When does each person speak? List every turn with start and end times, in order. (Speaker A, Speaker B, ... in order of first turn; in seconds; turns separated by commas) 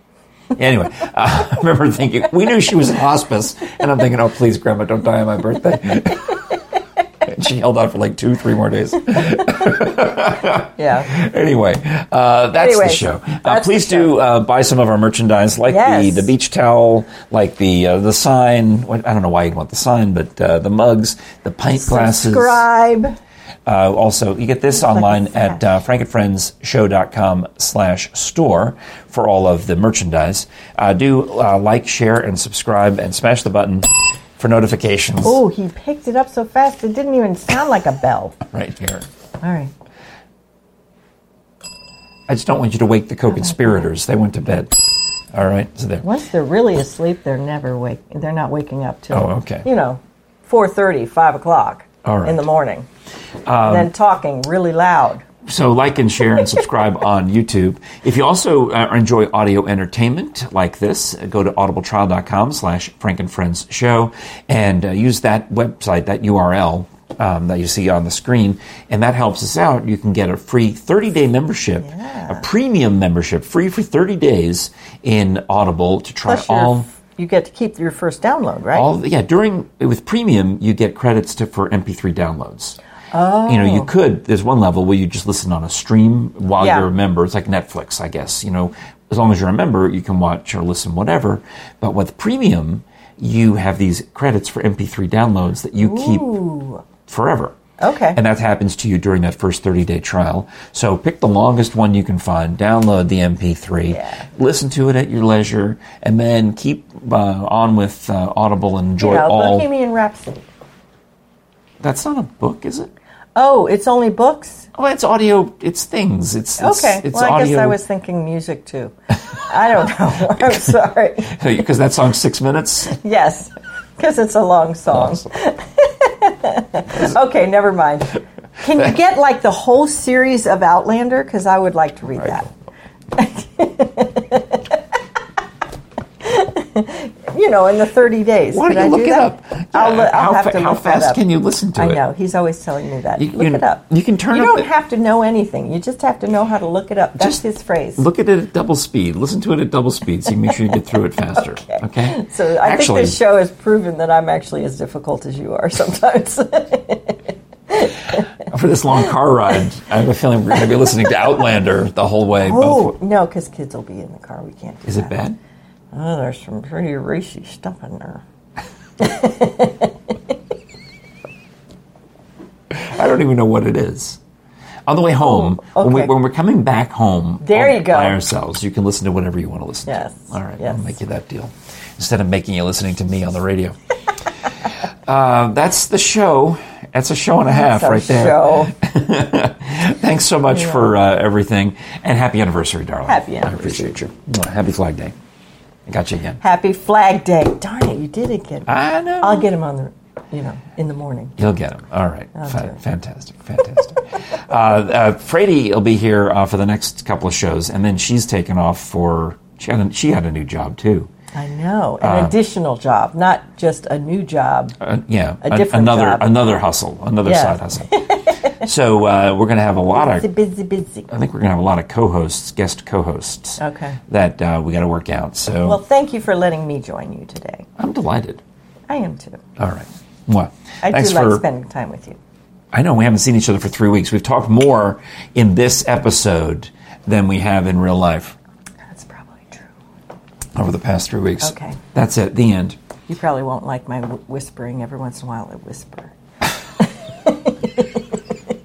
Speaker A: 0.5-6.5, Speaker A: 7.2-22.6, Speaker B: 10.8-11.1, Speaker B: 12.5-14.1, Speaker B: 15.7-16.3, Speaker B: 21.7-23.1, Speaker A: 23.6-35.4, Speaker B: 24.7-25.7, Speaker B: 35.2-38.4, Speaker A: 38.5-39.0, Speaker B: 39.4-39.7, Speaker A: 42.3-44.7, Speaker B: 43.3-43.9, Speaker A: 45.3-46.1, Speaker B: 46.0-52.9, Speaker A: 49.1-49.7, Speaker A: 52.0-52.5, Speaker A: 53.5-53.9, Speaker B: 53.6-55.2, Speaker A: 55.5-76.9, Speaker B: 71.8-72.5, Speaker B: 76.3-78.9, Speaker A: 78.7-82.8, Speaker B: 83.1-83.9, Speaker A: 83.5-96.4, Speaker B: 86.6-86.9, Speaker B: 95.8-96.8, Speaker A: 97.0-97.6, Speaker B: 97.8-98.2, Speaker A: 98.1-109.7, Speaker B: 103.9-104.2, Speaker B: 109.0-110.5, Speaker A: 111.8-112.9, Speaker B: 113.3-114.7, Speaker A: 114.7-117.8, Speaker B: 116.6-121.4, Speaker A: 121.2-123.0, Speaker B: 122.9-132.5, Speaker A: 125.0-125.2, Speaker B: 133.1-134.8, Speaker B: 136.2-141.2, Speaker A: 138.5-142.0, Speaker B: 141.7-148.0, Speaker A: 143.2-144.7, Speaker A: 147.9-153.2, Speaker B: 151.3-158.2, Speaker A: 158.5-162.9, Speaker B: 162.4-165.2, Speaker A: 164.8-165.4, Speaker B: 165.9-168.2, Speaker B: 169.0-170.2, Speaker A: 172.7-174.2, Speaker A: 174.9-183.8, Speaker B: 175.2-176.1, Speaker B: 177.4-178.2, Speaker B: 179.9-180.9, Speaker A: 185.1-195.1, Speaker B: 187.5-188.7, Speaker B: 190.5-190.9, Speaker B: 193.1-193.9, Speaker A: 195.9-196.4, Speaker B: 196.4-198.7, Speaker A: 198.7-199.5, Speaker B: 199.2-201.3, Speaker A: 201.4-211.1, Speaker B: 202.3-202.7, Speaker B: 211.3-214.8, Speaker A: 212.0-212.4, Speaker A: 214.8-220.3, Speaker B: 215.4-216.3, Speaker B: 217.2-218.5, Speaker B: 219.9-221.1, Speaker A: 221.1-225.8, Speaker B: 223.6-224.0, Speaker B: 225.6-227.7, Speaker A: 227.8-228.4, Speaker B: 228.9-229.4, Speaker A: 229.6-231.4, Speaker B: 230.8-232.2, Speaker A: 232.7-238.3, Speaker B: 238.9-239.7, Speaker A: 240.5-242.8, Speaker B: 241.4-241.8, Speaker B: 243.1-246.1, Speaker B: 246.8-248.2